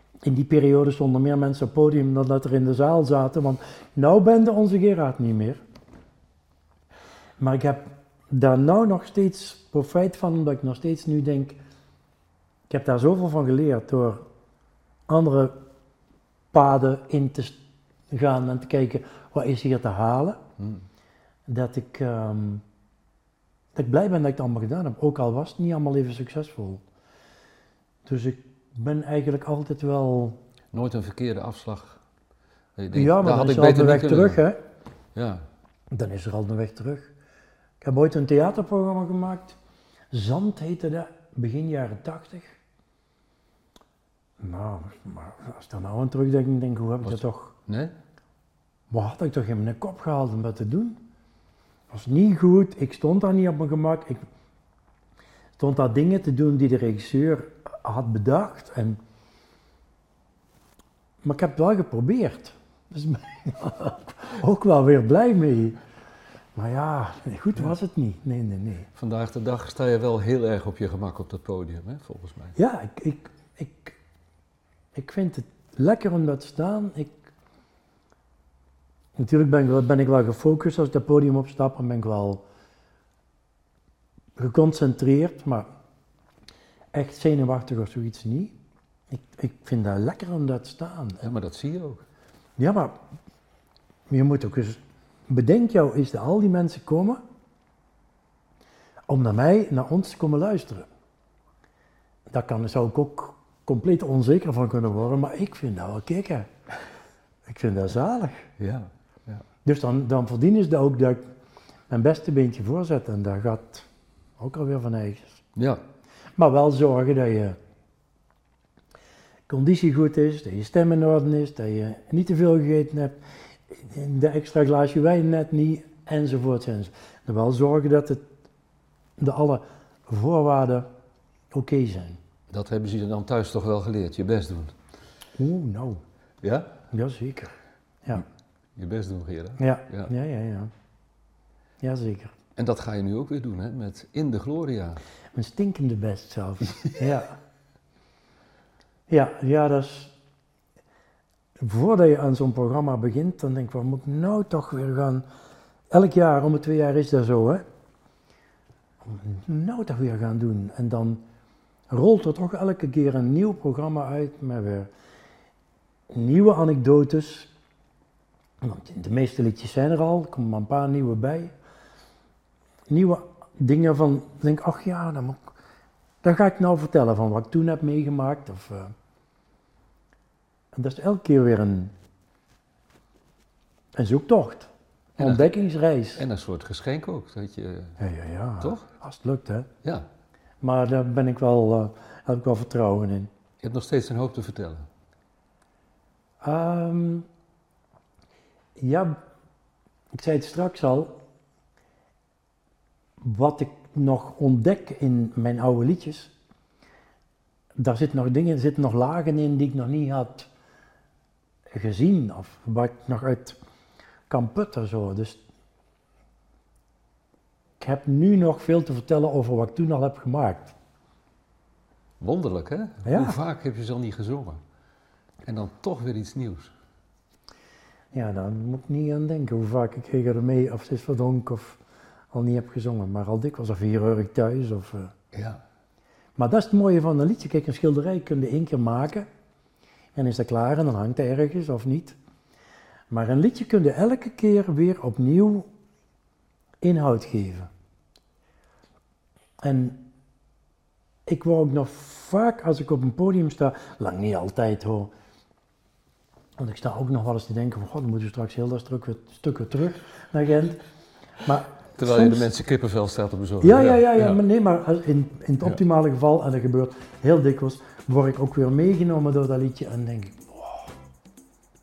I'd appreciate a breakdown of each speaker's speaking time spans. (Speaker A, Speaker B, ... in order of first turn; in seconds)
Speaker A: 0.2-5.6, 7.4-11.6, 12.7-14.2, 15.1-15.6, 16.5-17.6, 18.1-20.4, 21.5-22.6, 23.8-26.8, 28.1-30.4, 32.9-34.6, 35.9-37.1, 37.8-39.6, 40.1-42.6, 44.4-47.5, 48.9-51.0, 51.9-54.3, 55.6-59.0, 61.2-65.8, 66.6-68.9, 72.6-74.0, 74.9-77.3, 79.2-82.4, 84.4-85.7, 86.9-88.5, 89.1-91.2, 92.6-93.0, 94.1-97.2, 99.1-100.9, 102.3-106.5, 107.5-108.5, 109.7-111.2, 111.9-113.9, 114.4-115.4, 116.4-117.6, 119.5-123.2, 123.7-128.2, 129.2-130.9, 131.5-132.2, 135.4-136.0, 136.9-138.2, 139.6-140.7, 141.8-142.3, 145.3-147.4, 149.1-150.1, 151.6-155.2, 155.9-157.6, 159.0-161.2, 161.9-164.9, 166.1-167.5, 168.6-171.5, 172.9-175.5, 176.2-178.9, 180.7-181.9, 183.9-186.2, 188.0-189.7, 190.6-193.3, 196.4-197.3, 198.8-199.2, 200.1-201.2, 203.2-206.3, 207.8-210.5, 211.7-213.6, 214.3-215.4, 217.8-220.7, 223.0-223.4, 228.1-231.8, 232.3-235.1, 236.4-239.3, 240.2-242.2, 243.1-245.7, 246.8-247.7, 249.6-250.0, 251.3-255.1, 256.6-260.8, 261.4-262.5, 263.6-270.9
Speaker B: 30.7-32.0, 32.8-34.4, 35.1-35.5, 47.0-47.9, 69.0-72.6, 91.2-92.1, 108.6-109.4, 115.5-115.8, 132.5-134.8, 136.4-136.8, 138.8-140.1, 142.6-145.0, 185.2-185.5, 186.2-188.0, 188.6-188.9, 193.6-194.9, 222.2-224.6, 225.4-226.7, 235.3-235.6, 262.0-264.4